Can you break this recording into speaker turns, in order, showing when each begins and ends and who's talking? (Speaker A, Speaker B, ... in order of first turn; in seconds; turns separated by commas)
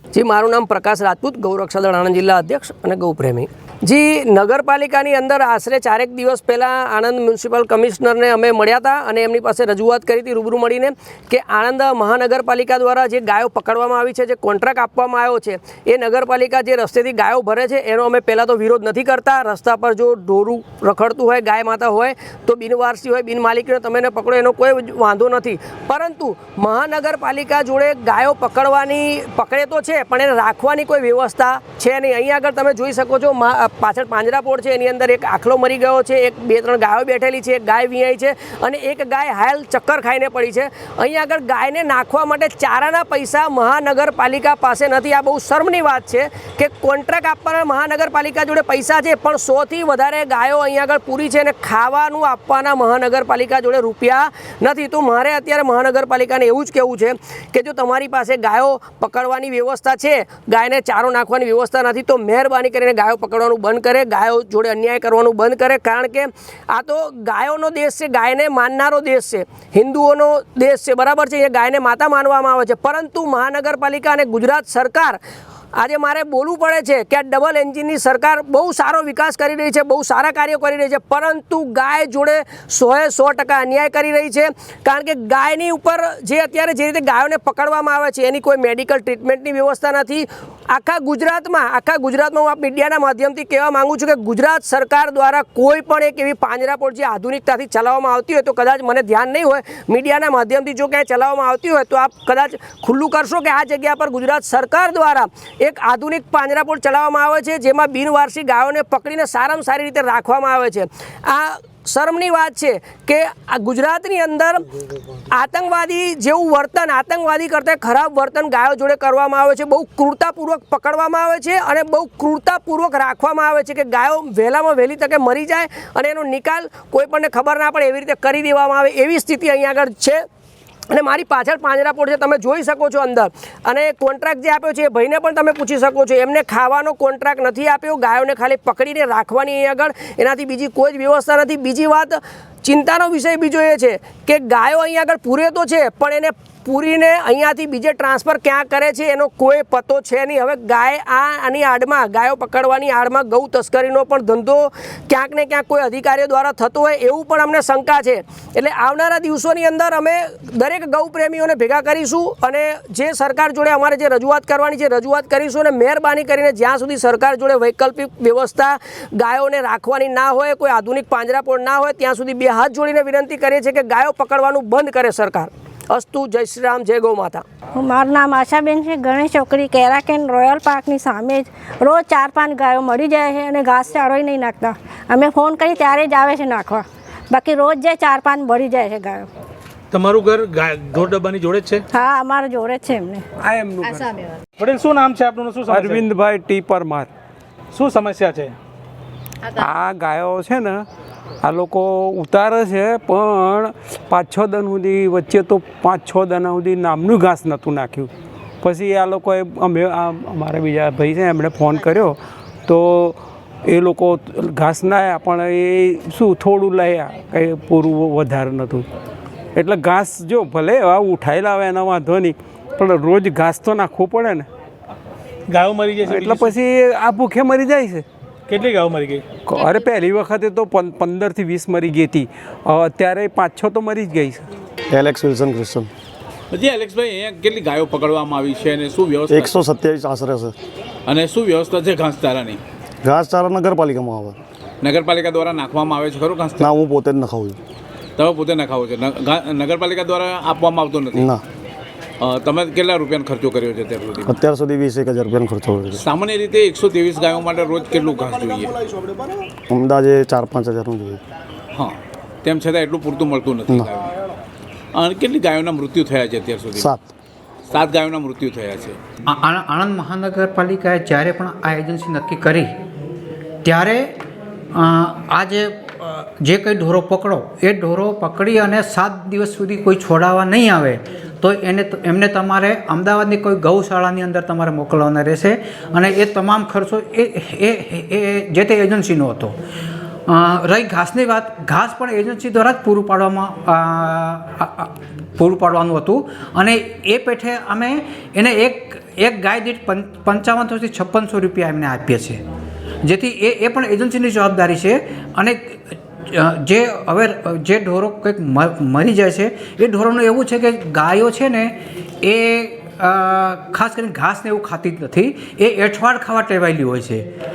Speaker A: 0.1-75.2, Speaker A: 75.8-114.7, Speaker A: 115.3-130.2, Speaker A: 130.9-177.4, Speaker B: 177.7-189.3, Speaker C: 189.9-191.8, Speaker B: 191.9-193.2, Speaker D: 193.4-194.1, Speaker C: 194.6-196.0, Speaker D: 195.7-197.1, Speaker C: 197.7-198.6, Speaker D: 199.6-200.8, Speaker D: 201.4-208.1, Speaker D: 208.6-218.8, Speaker D: 219.6-224.4, Speaker C: 225.5-226.5, Speaker D: 226.0-228.0, Speaker C: 228.5-229.2, Speaker D: 229.5-234.4, Speaker E: 234.9-235.9, Speaker F: 236.5-239.6, Speaker E: 239.3-240.5, Speaker F: 241.1-242.6, Speaker E: 243.0-244.4, Speaker F: 244.8-246.7, Speaker E: 246.6-247.6, Speaker F: 248.2-251.3, Speaker E: 251.1-251.4, Speaker F: 252.2-254.4, Speaker E: 254.2-256.0, Speaker F: 256.0-258.8, Speaker E: 259.7-261.2, Speaker F: 261.7-264.1, Speaker F: 264.9-266.9, Speaker E: 266.7-267.0, Speaker F: 267.7-269.0, Speaker G: 269.3-272.7, Speaker G: 273.6-274.1, Speaker G: 274.7-289.5, Speaker G: 290.3-302.4, Speaker G: 303.0-317.3